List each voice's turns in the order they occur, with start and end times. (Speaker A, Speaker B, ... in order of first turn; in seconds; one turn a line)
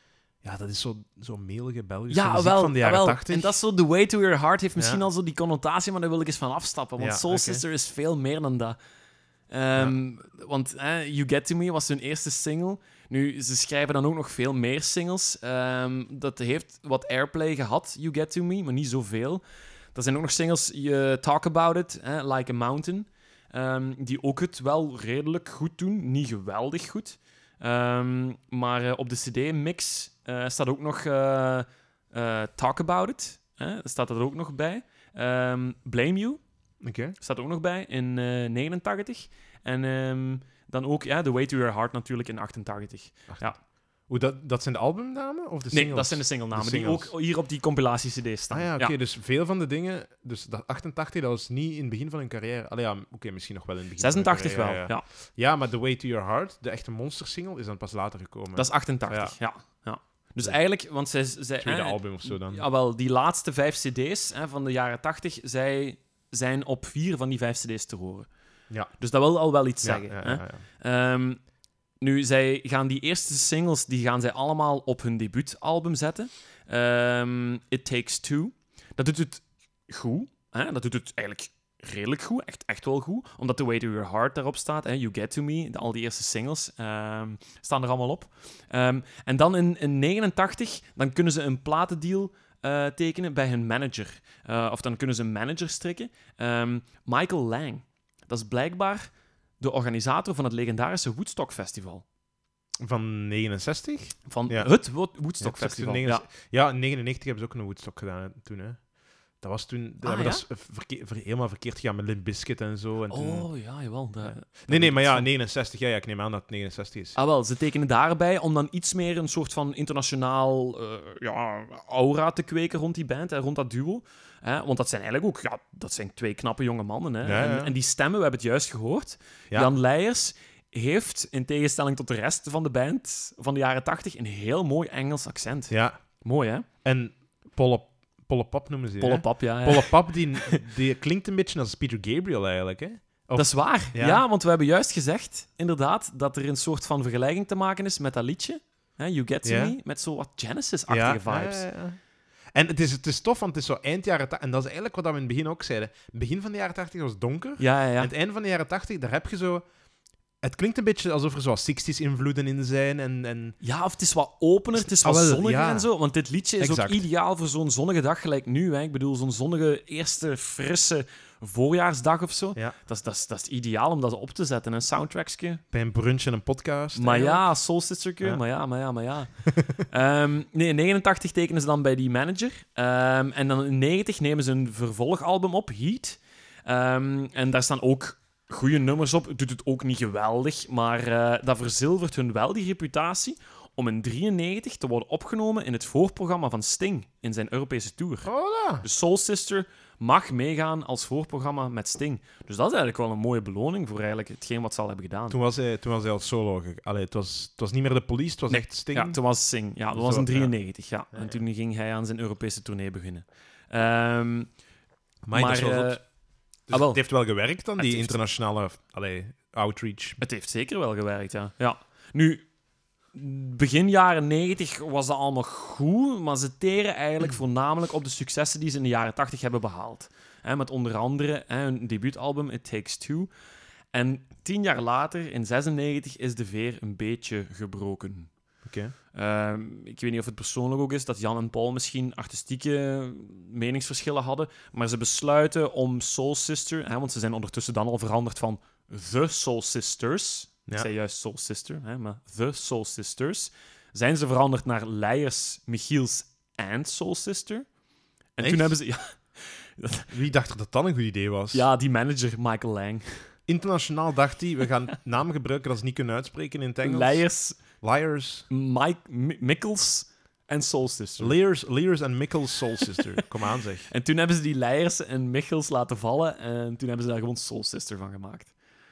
Speaker A: 0.4-3.6
Speaker B: 2.1-8.8
Speaker A: 4.8-5.0
Speaker A: 7.0-7.6
Speaker B: 9.5-19.4
Speaker B: 19.9-36.4
Speaker A: 36.8-37.1
Speaker B: 37.2-43.6
Speaker A: 44.1-47.1
Speaker B: 45.7-48.9
Speaker A: 48.5-59.3
Speaker B: 54.0-55.0
Speaker B: 58.5-68.3
Speaker A: 61.6-62.6
Speaker B: 69.0-71.4
Speaker A: 69.8-70.6
Speaker B: 72.0-99.1
Speaker B: 99.6-102.0
Speaker A: 102.8-104.8
Speaker B: 104.3-106.2
Speaker A: 105.4-108.8
Speaker A: 109.4-113.5
Speaker B: 110.0-110.4
Speaker B: 113.1-115.3
Speaker A: 114.2-117.2
Speaker B: 117.2-136.7
Speaker A: 127.2-127.7
Speaker A: 135.7-136.0
Speaker A: 136.8-144.2
Speaker B: 139.0-140.6
Speaker B: 143.3-151.7
Speaker A: 149.4-149.8
Speaker A: 150.9-152.0
Speaker A: 152.5-159.6
Speaker B: 157.6-158.1
Speaker A: 160.4-163.6
Speaker B: 163.6-175.6
Speaker A: 164.8-165.9
Speaker A: 166.6-167.0
Speaker A: 175.7-177.4
Speaker B: 176.9-179.3
Speaker B: 179.9-198.3
Speaker A: 198.2-198.8
Speaker B: 198.8-205.4
Speaker A: 205.3-209.2
Speaker B: 208.5-214.5
Speaker A: 209.9-210.5
Speaker A: 211.1-211.4
Speaker A: 215.2-216.0
Speaker B: 215.3-216.0
Speaker A: 216.7-220.2
Speaker B: 216.7-217.0
Speaker B: 217.8-218.2
Speaker B: 220.2-222.4
Speaker B: 223.1-233.3
Speaker B: 233.9-238.3
Speaker A: 238.7-238.9
Speaker B: 239.1-257.6
Speaker B: 258.4-260.1
Speaker A: 258.4-258.8
Speaker A: 260.1-261.7
Speaker B: 261.5-263.3
Speaker A: 263.5-267.2
Speaker B: 266.8-267.6
Speaker A: 267.8-268.5
Speaker B: 268.5-271.4
Speaker A: 271.2-273.9
Speaker B: 273.9-278.5